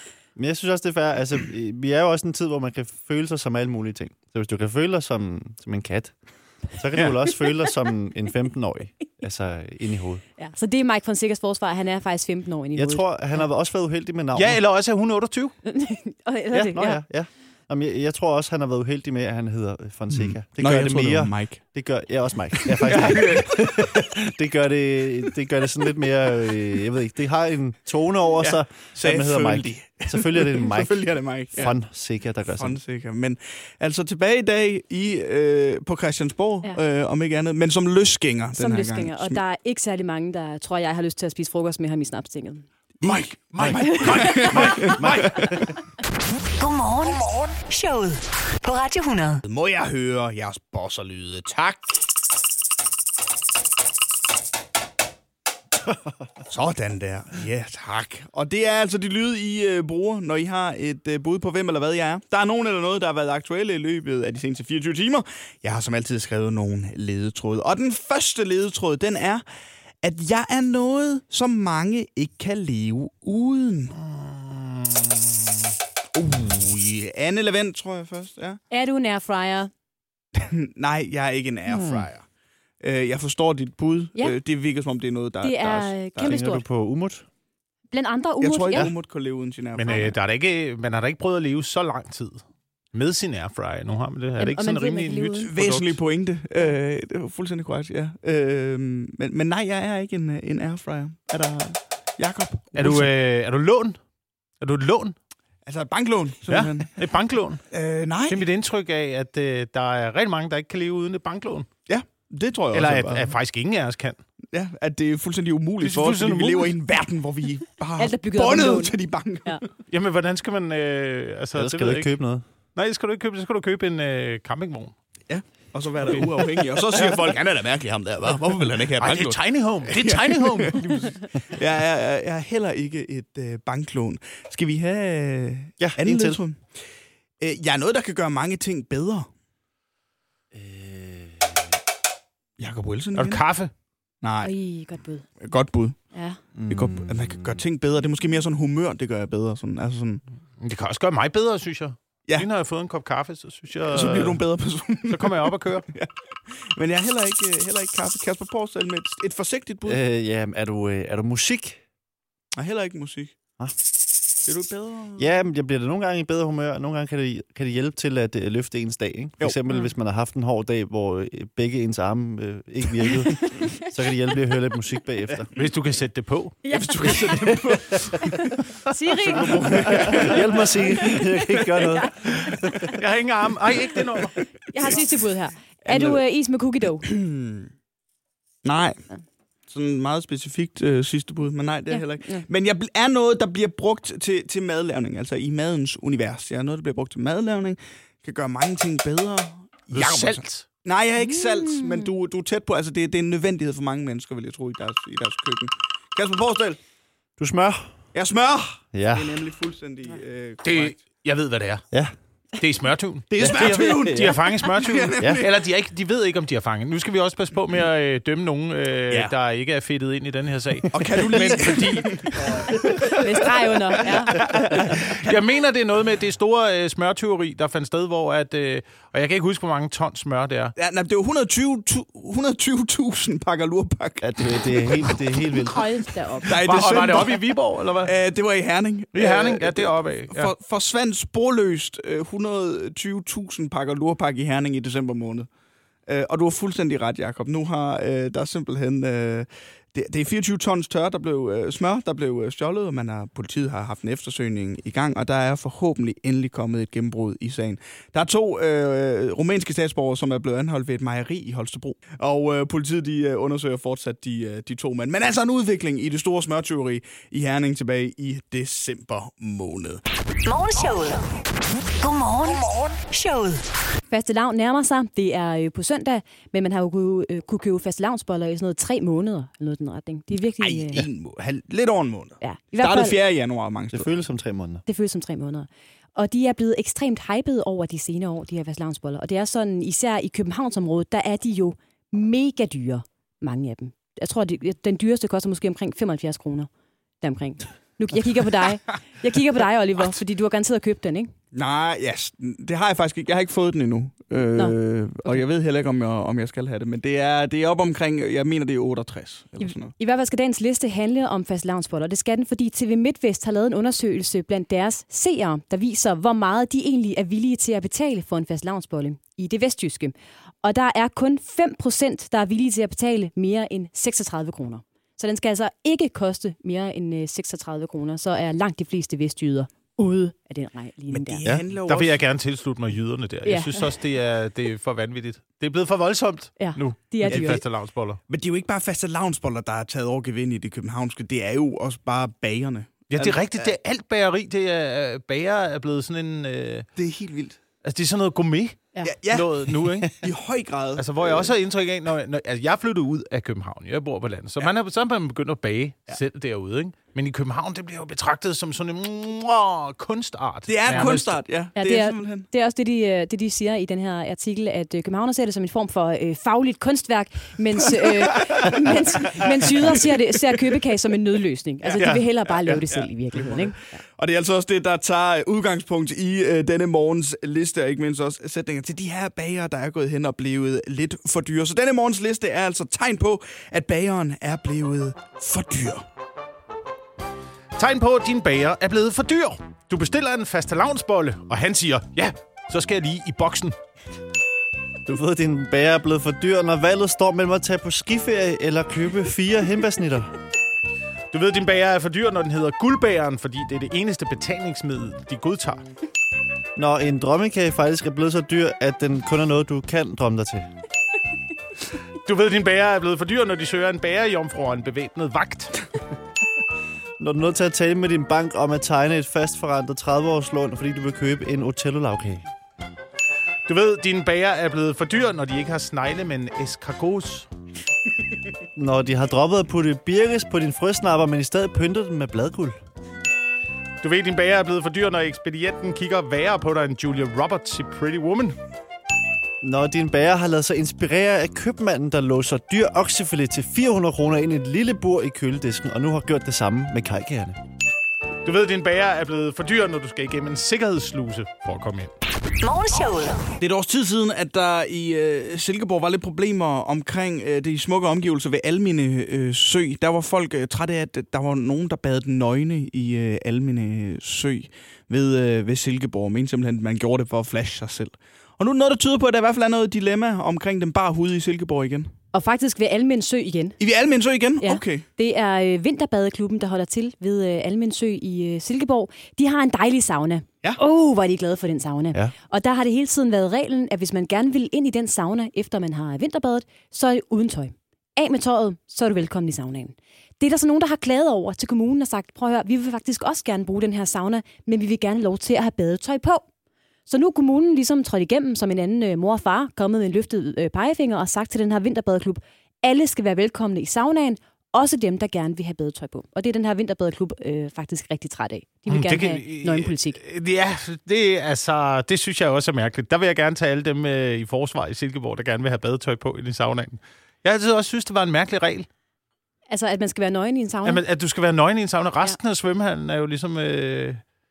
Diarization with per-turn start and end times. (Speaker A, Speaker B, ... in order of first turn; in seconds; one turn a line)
Speaker A: 0.3-6.1
Speaker A: 6.7-10.2
Speaker B: 10.4-13.4
Speaker A: 12.7-14.6
Speaker C: 14.3-15.6
Speaker B: 15.6-17.0
Speaker A: 16.5-32.8
Speaker D: 20.1-21.6
Speaker D: 22.6-23.5
Speaker C: 22.9-23.4
Speaker D: 28.4-31.7
Speaker D: 32.5-39.4
Speaker B: 38.6-42.7
Speaker D: 43.0-45.6
Speaker C: 43.5-45.5
Speaker B: 43.8-45.0
Speaker A: 45.1-45.5
Speaker E: 46.5-49.4
Speaker D: 49.5-52.0
Speaker D: 56.5-69.4
Speaker D: 70.0-74.0
Speaker C: 74.0-75.2
Speaker D: 76.1-78.6
Speaker B: 78.7-79.7
Speaker D: 80.3-82.2
Speaker A: 81.7-82.1
Speaker D: 82.8-86.4
Speaker B: 85.4-86.6
Speaker A: 86.2-87.2
Speaker B: 87.9-88.9
Speaker D: 88.4-90.1
Speaker C: 89.7-96.0
Speaker B: 94.4-95.5
Speaker D: 95.5-103.1
Speaker C: 102.7-104.0
Speaker C: 104.6-105.1
Speaker D: 105.7-107.0
Speaker C: 106.5-107.6
Speaker D: 107.7-108.4
Speaker C: 108.3-111.7
Speaker D: 111.9-113.3
Speaker C: 112.7-114.2
Speaker D: 114.5-119.7
Speaker C: 115.8-116.8
Speaker B: 118.0-119.6
Speaker C: 119.9-122.1
Speaker A: 121.5-122.4
Speaker C: 122.7-124.9
Speaker D: 125.3-136.8
Speaker C: 126.1-127.0
Speaker C: 129.0-131.0
Speaker A: 135.8-136.4
Speaker D: 137.4-139.3
Speaker A: 140.5-141.5
Speaker D: 142.6-143.4
Speaker C: 143.1-143.7
Speaker D: 144.2-144.5
Speaker B: 144.4-145.2
Speaker D: 145.4-146.1
Speaker B: 146.1-146.4
Speaker A: 146.6-147.6
Speaker D: 146.7-150.2
Speaker C: 150.6-154.4
Speaker D: 153.9-160.0
Speaker C: 155.1-155.9
Speaker A: 159.8-161.8
Speaker D: 162.5-163.3
Speaker D: 164.4-165.3
Speaker A: 165.2-175.5
Speaker C: 175.5-176.7
Speaker B: 176.6-177.4
Speaker D: 176.7-178.6
Speaker B: 178.9-182.9
Speaker D: 179.2-181.0
Speaker C: 179.6-180.3
Speaker A: 179.9-182.9
Speaker C: 182.5-184.4
Speaker B: 184.7-187.1
Speaker D: 185.8-186.2
Speaker D: 187.0-187.7
Speaker D: 188.6-189.1
Speaker D: 189.7-206.8
Speaker B: 191.9-192.4
Speaker C: 199.9-200.7
Speaker B: 201.2-202.1
Speaker A: 207.4-207.9
Speaker D: 208.1-211.0
Speaker A: 208.9-209.4
Speaker C: 210.6-211.8
Speaker C: 212.6-222.7
Speaker D: 213.3-215.5
Speaker A: 213.4-214.3
Speaker D: 220.9-225.3
Speaker B: 222.7-224.4
Speaker C: 224.4-230.7
Speaker D: 230.8-235.2
Speaker A: 234.2-235.9
Speaker B: 235.6-236.6
Speaker D: 236.4-245.5
Speaker C: 236.5-238.1
Speaker C: 239.1-240.5
Speaker D: 246.1-270.0
Speaker E: 270.4-271.3
Speaker E: 272.0-273.6
Speaker B: 274.1-281.1
Speaker D: 280.6-284.1
Speaker B: 282.4-283.1
Speaker A: 283.9-284.8
Speaker B: 284.9-296.7
Speaker B: 297.2-301.3
Speaker D: 301.5-309.9
Speaker B: 309.6-331.4
Speaker D: 331.1-332.2
Speaker C: 331.8-338.2
Speaker B: 333.4-333.9
Speaker B: 336.6-337.6
Speaker D: 337.2-337.6
Speaker D: 338.3-343.7
Speaker C: 343.1-346.9
Speaker D: 347.0-347.6
Speaker C: 347.8-350.2
Speaker D: 349.0-351.5
Speaker C: 350.9-361.4
Speaker D: 360.7-362.5
Speaker B: 361.8-374.0
Speaker D: 368.0-370.2
Speaker D: 371.8-386.0
Speaker C: 372.0-372.2
Speaker C: 387.8-393.7
Speaker A: 395.1-400.3
Speaker C: 401.3-405.8
Speaker A: 406.8-410.7
Speaker C: 412.2-415.8
Speaker A: 417.2-422.4
Speaker C: 423.7-427.5
Speaker A: 428.8-432.8
Speaker C: 434.0-438.6
Speaker A: 439.6-447.6
Speaker C: 448.4-452.1
Speaker E: 452.6-453.5
Speaker D: 453.6-472.1
Speaker B: 472.3-473.8
Speaker D: 473.8-475.1
Speaker B: 474.6-496.4
Speaker B: 497.1-510.2
Speaker C: 508.9-518.9
Speaker B: 519.7-521.0
Speaker C: 520.8-524.2